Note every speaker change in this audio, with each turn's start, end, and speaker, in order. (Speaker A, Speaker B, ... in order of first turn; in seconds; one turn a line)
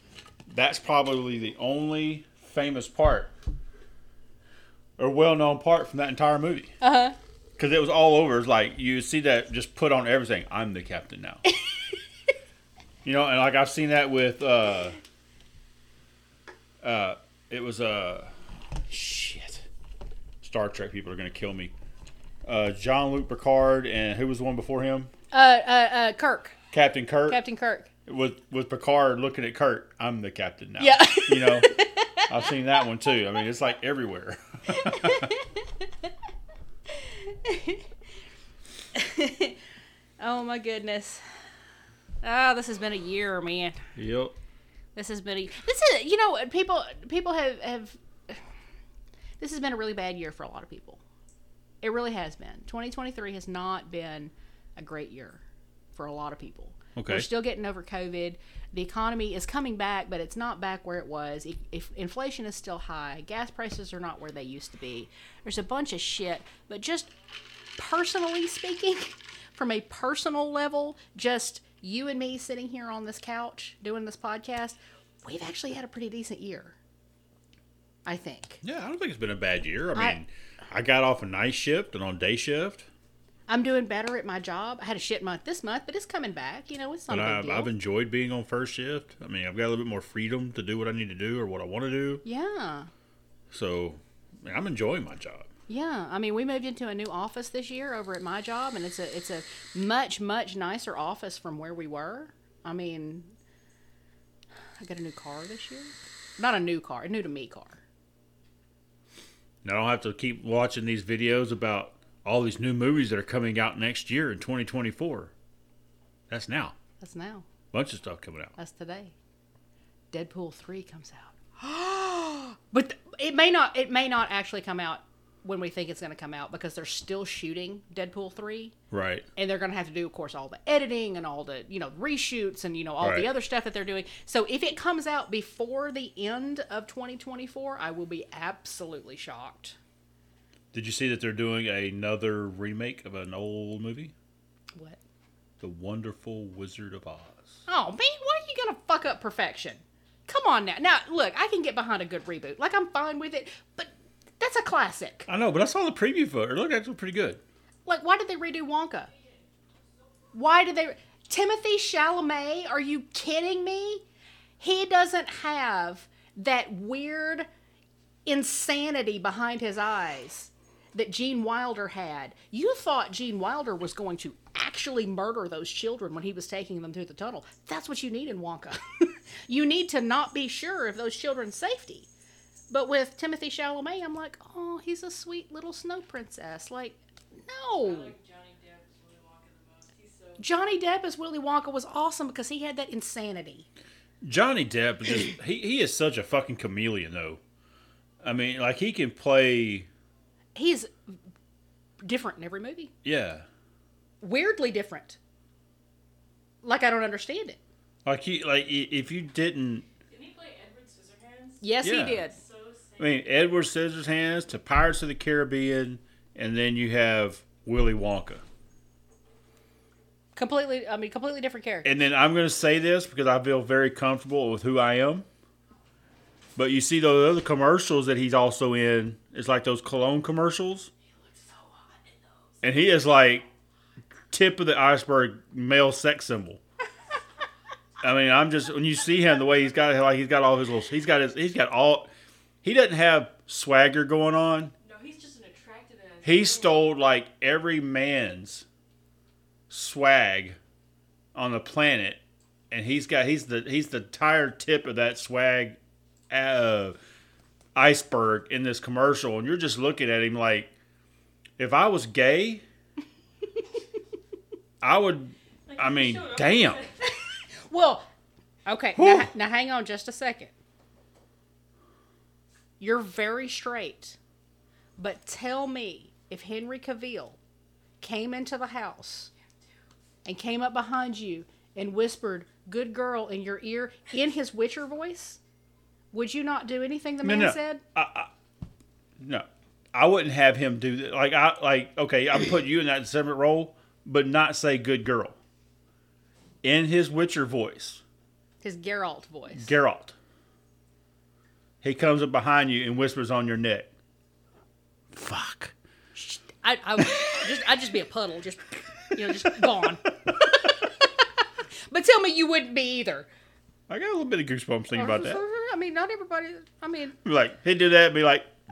Speaker A: 0.5-3.3
Speaker A: 5.0-6.7
Speaker B: 6.8-7.2
Speaker A: 7.6-11.4
Speaker A: 13.0-15.0
Speaker A: 16.8-18.3
Speaker A: 18.9-19.7
Speaker A: 20.4-21.7
Speaker A: 22.4-25.1
Speaker B: 25.3-26.6
Speaker A: 26.7-27.4
Speaker B: 27.3-27.9
Speaker A: 28.1-35.3
Speaker B: 30.8-32.3
Speaker B: 34.7-35.9
Speaker B: 36.9-37.9
Speaker B: 38.9-39.6
Speaker B: 40.2-41.2
Speaker B: 42.2-43.8
Speaker A: 44.0-44.4
Speaker B: 45.0-48.4
Speaker B: 49.4-51.0
Speaker B: 51.8-55.4
Speaker B: 55.9-67.1
Speaker A: 57.0-57.3
Speaker B: 67.8-76.8
Speaker B: 78.0-78.6
Speaker A: 78.6-82.9
Speaker B: 83.5-87.7
Speaker A: 87.1-92.2
Speaker B: 92.2-92.9
Speaker A: 93.5-95.5
Speaker B: 95.7-103.3
Speaker B: 104.8-107.8
Speaker A: 109.6-115.3
Speaker A: 116.3-116.7
Speaker B: 117.0-117.5
Speaker A: 117.7-118.5
Speaker B: 118.6-119.1
Speaker B: 120.1-128.7
Speaker A: 128.9-129.2
Speaker B: 129.3-139.8
Speaker A: 133.0-133.3
Speaker A: 140.7-144.1
Speaker B: 144.7-145.0
Speaker A: 145.6-147.6
Speaker B: 147.7-155.3
Speaker A: 155.3-157.4
Speaker B: 157.8-159.1
Speaker B: 160.3-164.0
Speaker B: 164.6-167.5
Speaker B: 168.2-182.1
Speaker B: 182.7-188.1
Speaker C: 187.8-190.4
Speaker B: 190.4-193.7
Speaker A: 194.2-197.4
Speaker A: 198.2-199.9
Speaker B: 200.6-200.9
Speaker B: 202.0-202.9
Speaker A: 203.0-203.4
Speaker B: 204.2-205.2
Speaker B: 206.6-207.6
Speaker A: 208.0-209.9
Speaker C: 210.1-213.1
Speaker B: 211.6-212.4
Speaker A: 211.8-212.2
Speaker A: 213.0-218.4
Speaker B: 220.3-221.9
Speaker A: 221.8-225.2
Speaker A: 226.6-230.9
Speaker C: 231.1-232.5
Speaker A: 232.6-233.4
Speaker A: 234.3-236.6
Speaker A: 238.0-242.1
Speaker A: 242.6-244.7
Speaker C: 244.8-246.8
Speaker A: 246.2-248.6
Speaker A: 249.7-250.6
Speaker A: 251.3-255.8
Speaker A: 256.3-257.0
Speaker A: 257.7-260.7
Speaker A: 261.6-262.6
Speaker A: 264.8-266.8
Speaker C: 265.7-267.1
Speaker B: 267.0-268.1
Speaker B: 268.6-270.5
Speaker A: 268.9-269.3
Speaker B: 272.8-274.2
Speaker B: 275.0-277.4
Speaker B: 278.0-279.3
Speaker B: 280.2-285.4
Speaker B: 286.1-287.8
Speaker A: 287.2-288.3
Speaker A: 289.2-295.4
Speaker A: 296.6-298.0
Speaker B: 298.6-299.7
Speaker A: 299.6-300.1
Speaker A: 301.8-303.9
Speaker A: 305.1-305.7
Speaker B: 306.1-313.3
Speaker A: 307.1-307.4
Speaker A: 309.2-310.7
Speaker A: 313.9-315.4
Speaker B: 314.9-317.1
Speaker A: 317.2-318.5